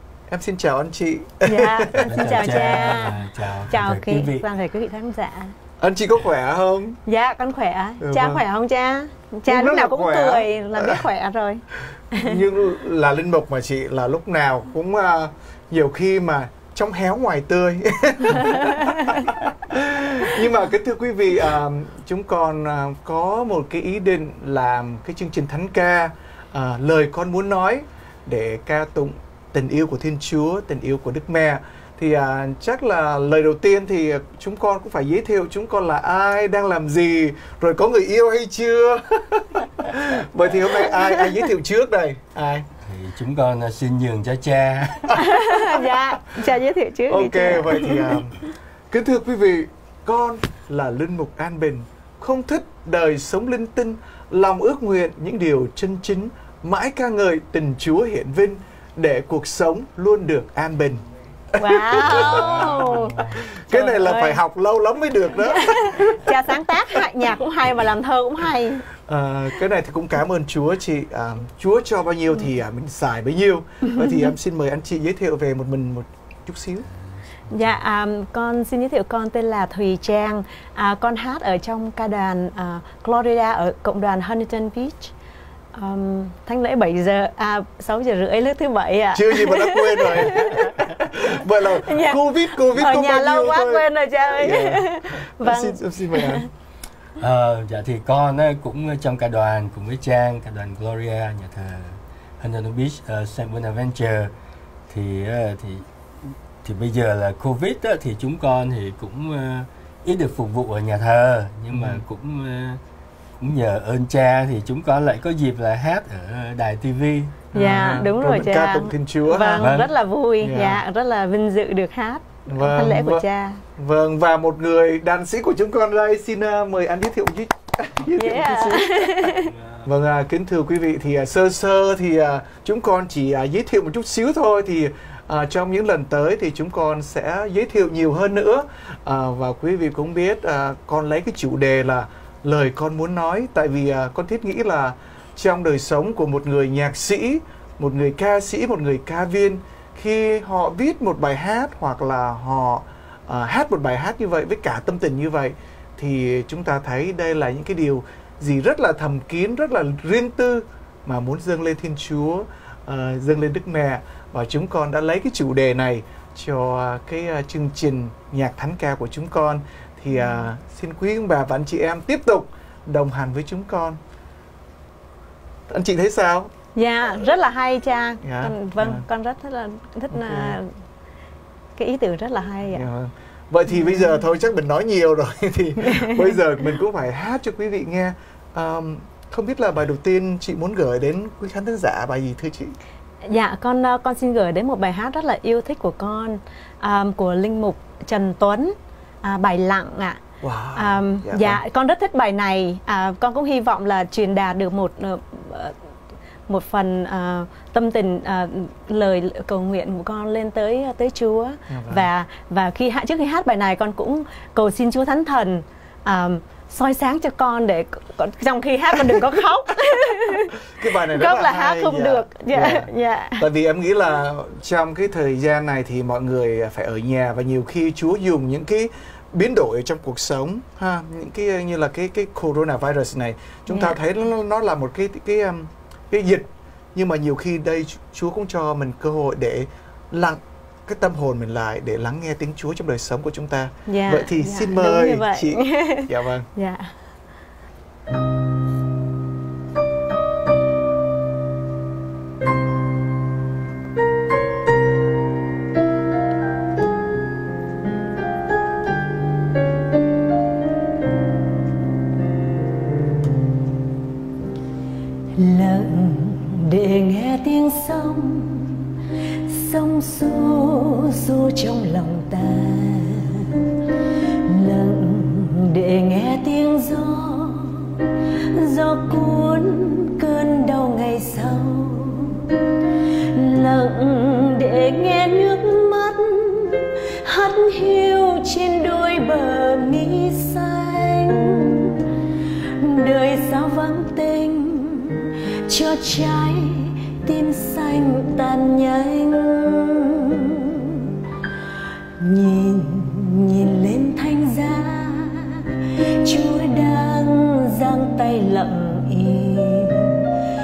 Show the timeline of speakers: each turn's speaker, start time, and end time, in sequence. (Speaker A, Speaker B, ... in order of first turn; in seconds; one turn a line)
Speaker A: 0.3-3.1
Speaker B: 1.4-5.5
Speaker C: 2.0-4.4
Speaker A: 5.8-7.0
Speaker B: 7.0-12.3
Speaker A: 8.0-8.4
Speaker A: 9.5-11.0
Speaker A: 12.2-42.7
Speaker C: 42.8-45.2
Speaker B: 45.1-48.1
Speaker A: 47.1-66.3
Speaker B: 61.6-64.4
Speaker B: 65.4-68.8
Speaker A: 69.0-76.9
Speaker B: 77.5-85.1
Speaker B: 85.7-90.7
Speaker A: 89.1-96.5
Speaker B: 91.8-96.5
Speaker C: 97.2-104.3
Speaker C: 104.9-112.8
Speaker A: 111.7-112.0
Speaker C: 113.4-117.5
Speaker A: 117.5-119.7
Speaker B: 117.5-123.6
Speaker C: 119.6-119.9
Speaker A: 120.4-120.8
Speaker A: 122.5-123.2
Speaker A: 123.8-174.0
Speaker B: 128.2-129.5
Speaker A: 175.7-176.5
Speaker B: 176.7-180.7
Speaker A: 178.2-179.1
Speaker A: 180.1-180.6
Speaker B: 181.8-182.9
Speaker A: 182.7-192.7
Speaker B: 185.8-186.3
Speaker B: 193.2-200.2
Speaker A: 200.4-201.6
Speaker B: 200.7-205.7
Speaker B: 206.5-220.6
Speaker A: 211.7-212.1
Speaker A: 220.7-246.5
Speaker B: 221.1-223.4
Speaker B: 233.7-233.9
Speaker B: 243.9-246.9
Speaker B: 265.3-268.9
Speaker B: 269.4-273.6
Speaker B: 274.4-282.6
Speaker B: 283.2-292.0
Speaker B: 292.8-301.1
Speaker B: 302.2-310.3